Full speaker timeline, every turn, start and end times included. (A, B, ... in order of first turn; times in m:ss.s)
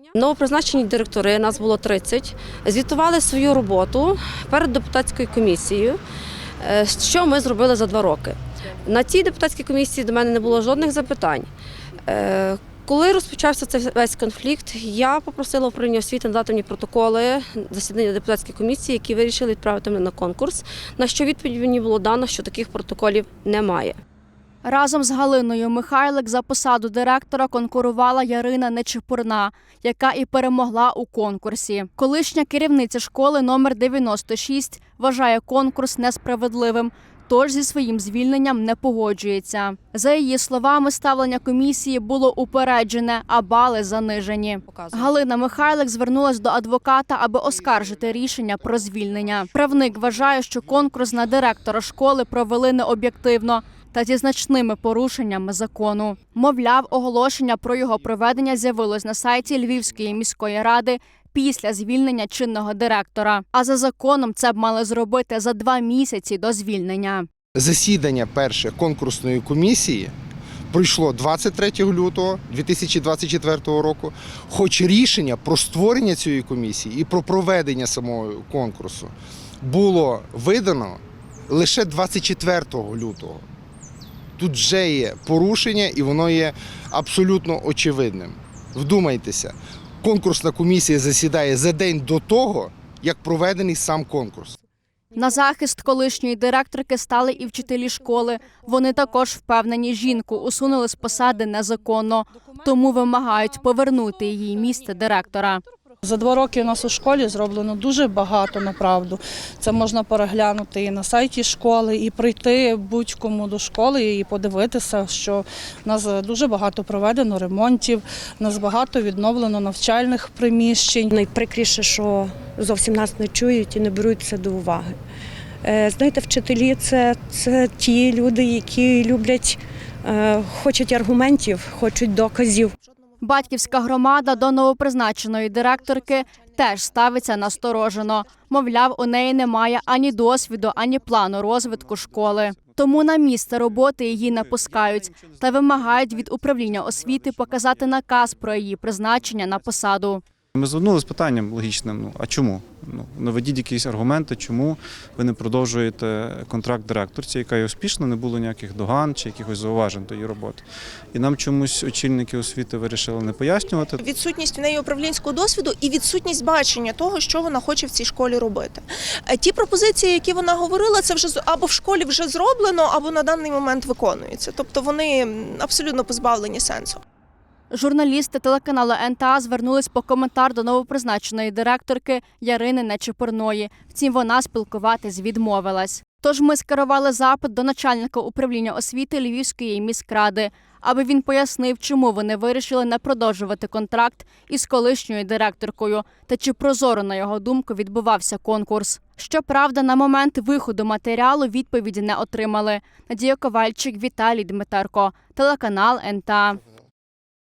0:00.2-0:06.0 A
0:06.6-0:11.5 A
0:12.1-0:24.0 A
0:24.6-1:07.3 B
0:44.7-0:45.1 A
1:07.6-1:10.1 C
1:10.7-1:23.4 C
1:24.4-1:34.6 C
1:35.1-1:45.6 B
1:46.0-2:01.1 D
2:01.1-2:05.0 E
2:05.6-2:12.8 E
2:13.2-2:30.2 B
2:16.3-2:16.6 F
2:30.5-2:44.0 G
2:44.0-2:57.0 F
2:57.7-3:26.6 B